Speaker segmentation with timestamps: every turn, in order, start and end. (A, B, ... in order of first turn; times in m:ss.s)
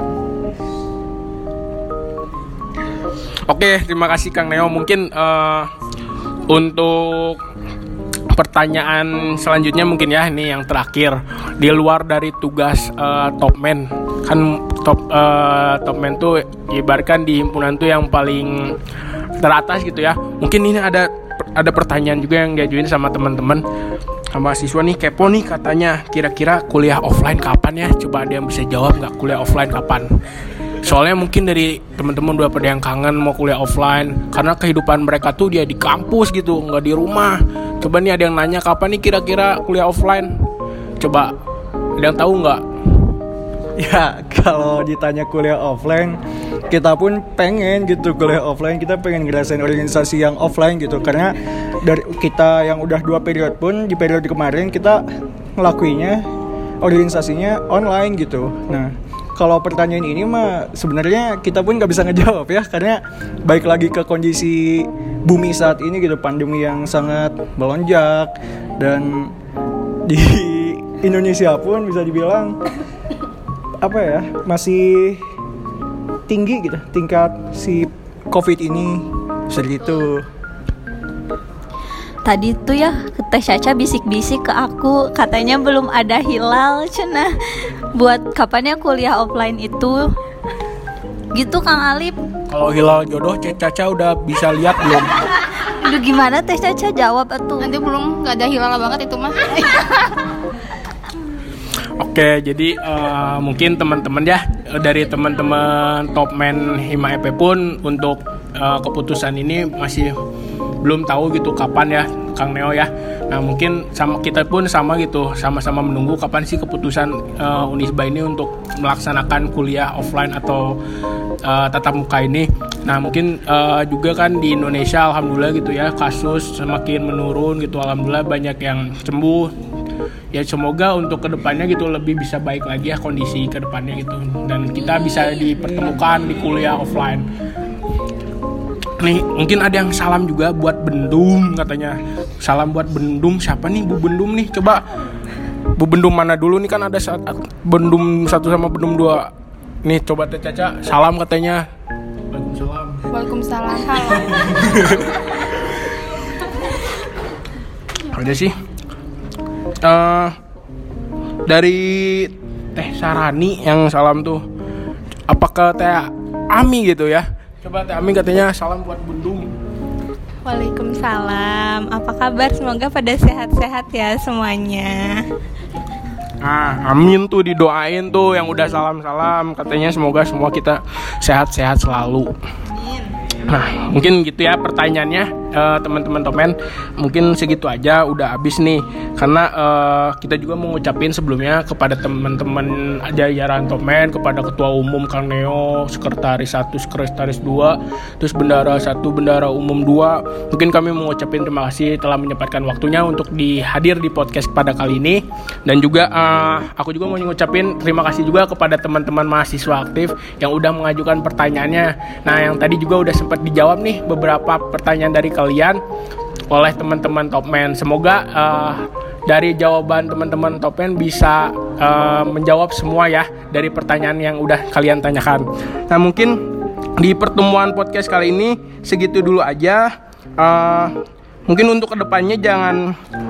0:03.5-0:05.7 A
0:06.5-0:07.4 A
0:08.3-0:18.8 A
0:19.4-0:23.6 A
0:24.3-0:30.1 A
0:30.8-0:40.3 A
0:41.0-0:41.3 A
0:42.0-0:42.6 A
0:43.8-0:55.0 B
0:55.6-0:56.2 B
0:56.8-1:09.3 B
1:10.0-1:12.6 B
1:13.8-1:15.2 B
1:16.3-1:20.2 B
1:22.2-1:30.1 C
1:31.3-1:32.2 C
1:32.5-1:35.2 A
1:35.6-1:37.7 C
1:37.6-1:39.6 D
1:42.0-1:50.1 A
1:50.8-2:00.8 A
2:01.4-2:09.5 A
2:10.3-2:17.3 A
2:19.0-2:24.8 A
2:25.8-2:29.3 A
2:29.8-2:31.6 A
2:32.3-2:33.0 A
2:33.1-2:34.4 D
2:34.2-2:35.2 A
2:38.1-2:38.5 A
2:39.8-2:40.4 A
2:41.4-2:44.4 A
2:45.3-2:49.5 A
2:50.4-2:55.2 E
2:56.4-3:02.3 A
3:03.4-3:35.8 A
3:36.5-3:46.4 A
3:47.0-3:50.9 A
3:51.5-3:52.9 A